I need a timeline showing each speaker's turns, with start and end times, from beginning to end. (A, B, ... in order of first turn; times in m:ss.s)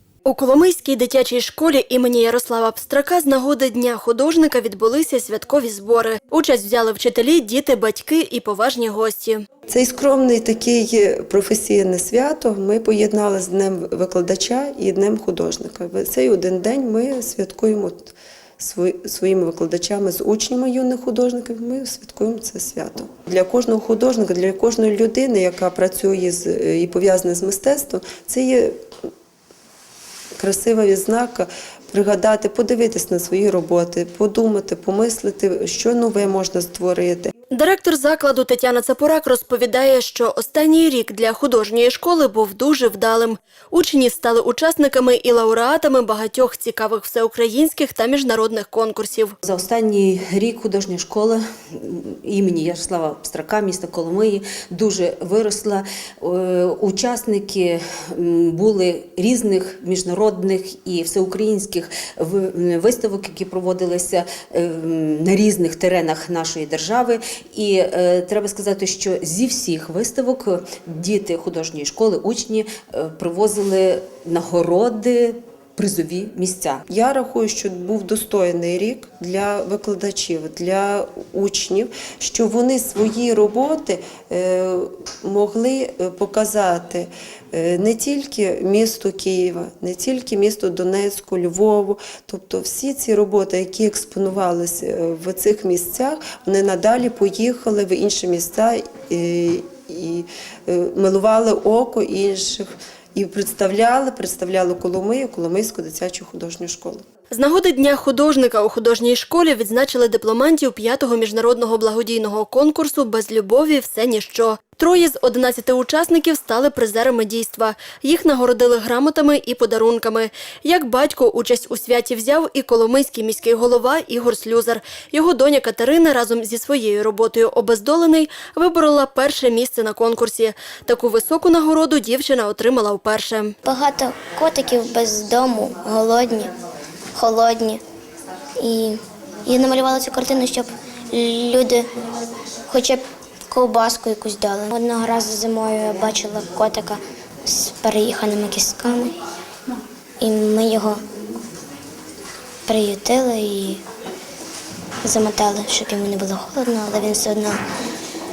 0:00.2-0:09.4 A
0:09.7-0:28.8 B
0:30.4-0:37.3 B
0:37.5-0:49.4 A
0:49.4-1:16.8 C
1:16.9-1:47.0 B
1:47.3-2:13.6 A
2:13.6-2:16.5 D
2:17.2-2:17.8 D
2:18.6-2:21.9 D
2:22.7-2:29.1 D
2:30.2-2:31.0 D
2:32.7-2:33.8 D
2:35.0-2:37.6 D